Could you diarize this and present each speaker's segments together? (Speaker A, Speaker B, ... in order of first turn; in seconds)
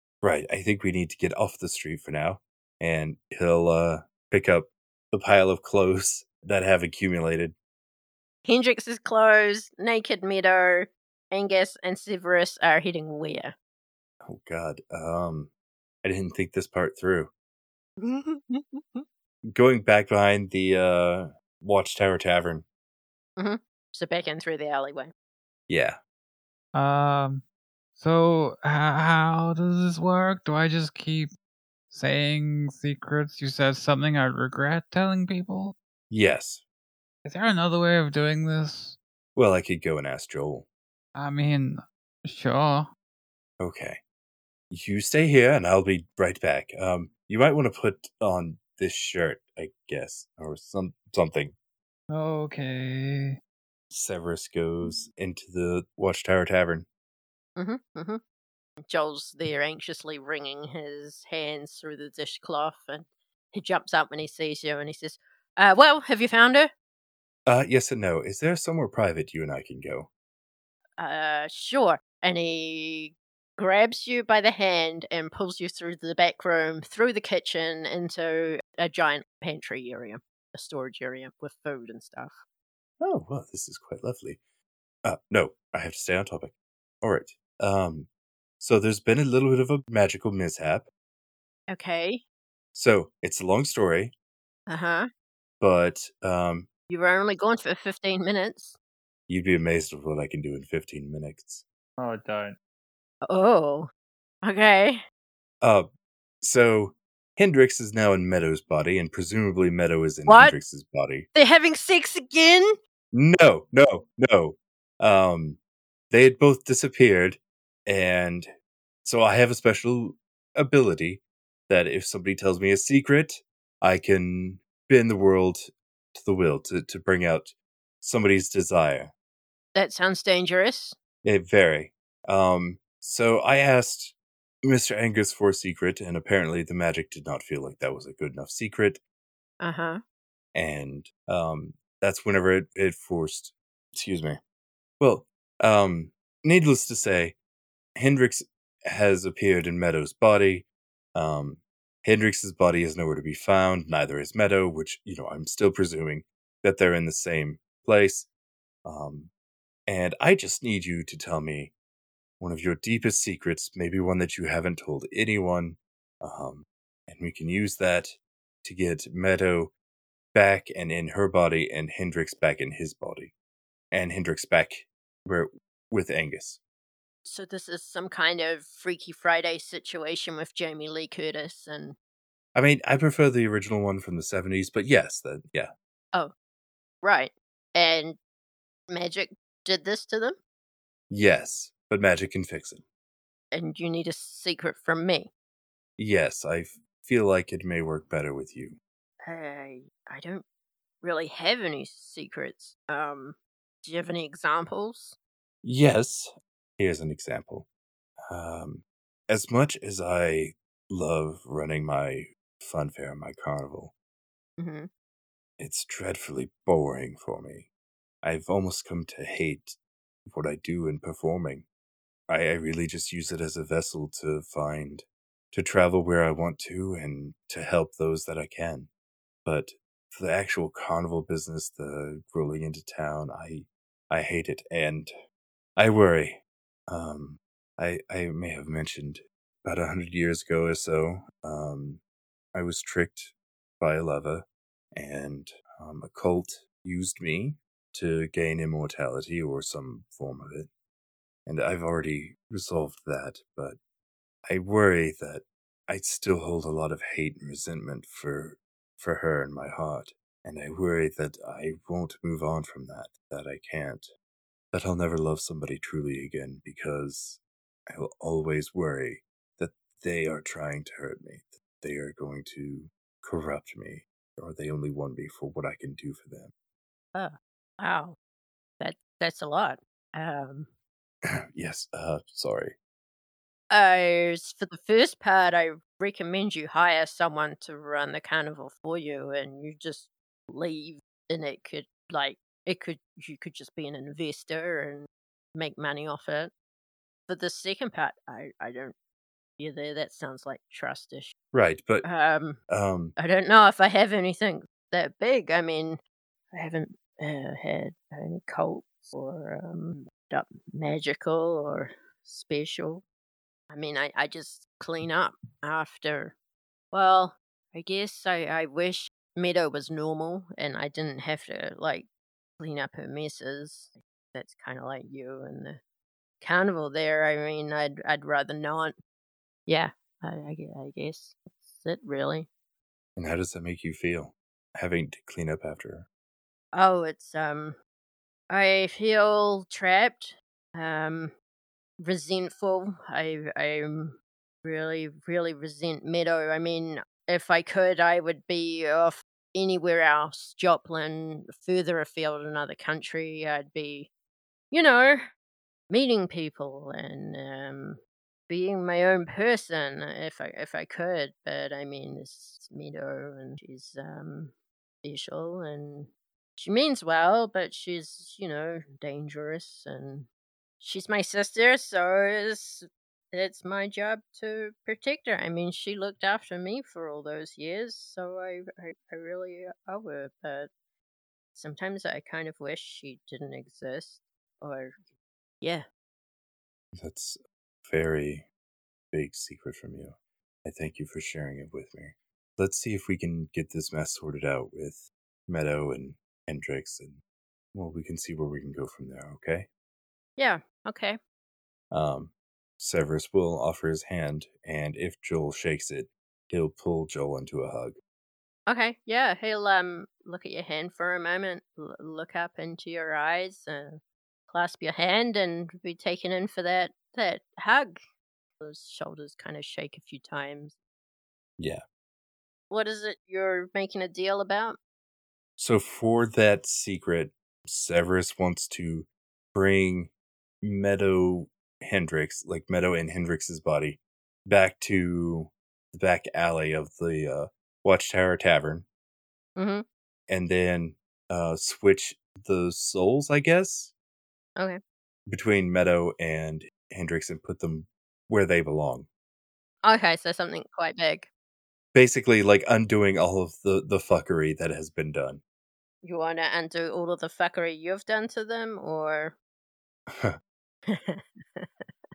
Speaker A: 0.2-7.5, 14.2-15.5, 16.0-17.3, 19.5-22.6, 25.7-26.0, 36.1-36.6, 39.4-40.6, 43.6-44.0, 44.7-51.5, 53.9-56.9, 67.5-70.1, 83.0-84.4, 85.0-88.1, 88.6-90.8, 92.7-94.1, 95.6-96.7, 99.3-101.6, 105.6-105.9, 106.4-111.3, 113.1-115.6, 116.1-118.5, 119.0-129.1, 131.2-139.0, 140.5-144.4, 145.0-147.3, 147.9-158.3, 158.8-159.3, 159.9-161.7, 162.4-168.1, 168.6-169.7, 170.3-173.3, 173.9-176.6, 182.5-185.7, 191.1-192.8, 196.0-198.8, 205.6-207.7, 208.3-213.9, 215.6-217.7, 218.2-221.6, 222.3-228.9, 229.4-235.1, 235.8-242.0, 242.5-250.7, 251.4-253.8, 254.5-264.1, 264.7-276.5, 281.2-282.7, 301.5-302.1, 302.7-303.1, 333.1-336.1, 386.9-388.4, 389.1-397.2, 397.7-399.7, 401.9-407.9, 421.6-421.8, 425.6-430.1, 430.6-438.9, 440.3-443.9, 445.3-449.1, 451.9-455.4, 460.1-460.4
Speaker B: 8.4-13.5, 18.0-19.0, 23.4-25.1, 57.6-58.2, 58.8-66.7, 71.0-82.4, 91.7-92.2, 94.7-95.1, 96.9-98.7, 103.2-103.9, 104.4-105.0, 110.3-110.5, 111.3-112.7, 129.7-130.9, 139.6-140.0, 177.2-181.9, 187.0-188.2, 188.9-190.4, 193.5-195.3, 199.2-200.4, 201.0-205.2, 214.6-214.9, 277.1-278.1, 278.8-280.7, 283.7-296.5, 297.3-298.9, 299.6-301.3, 302.0-302.6, 303.2-306.0, 306.5-313.0, 313.7-316.3, 316.9-322.1, 322.6-325.8, 326.4-328.9, 329.7-332.5, 336.7-337.8, 338.5-341.3, 342.0-354.1, 354.7-355.2, 355.9-364.5, 365.0-370.3, 370.8-380.7, 381.5-384.9, 400.4-401.2, 408.7-418.0, 418.6-420.7, 422.7-424.8, 439.6-439.8, 449.8-451.3, 456.0-459.4, 460.9-461.6
Speaker C: 26.7-27.4, 27.9-31.3, 31.9-35.7, 37.2-39.0, 41.1-42.9, 52.1-53.4, 102.0-102.5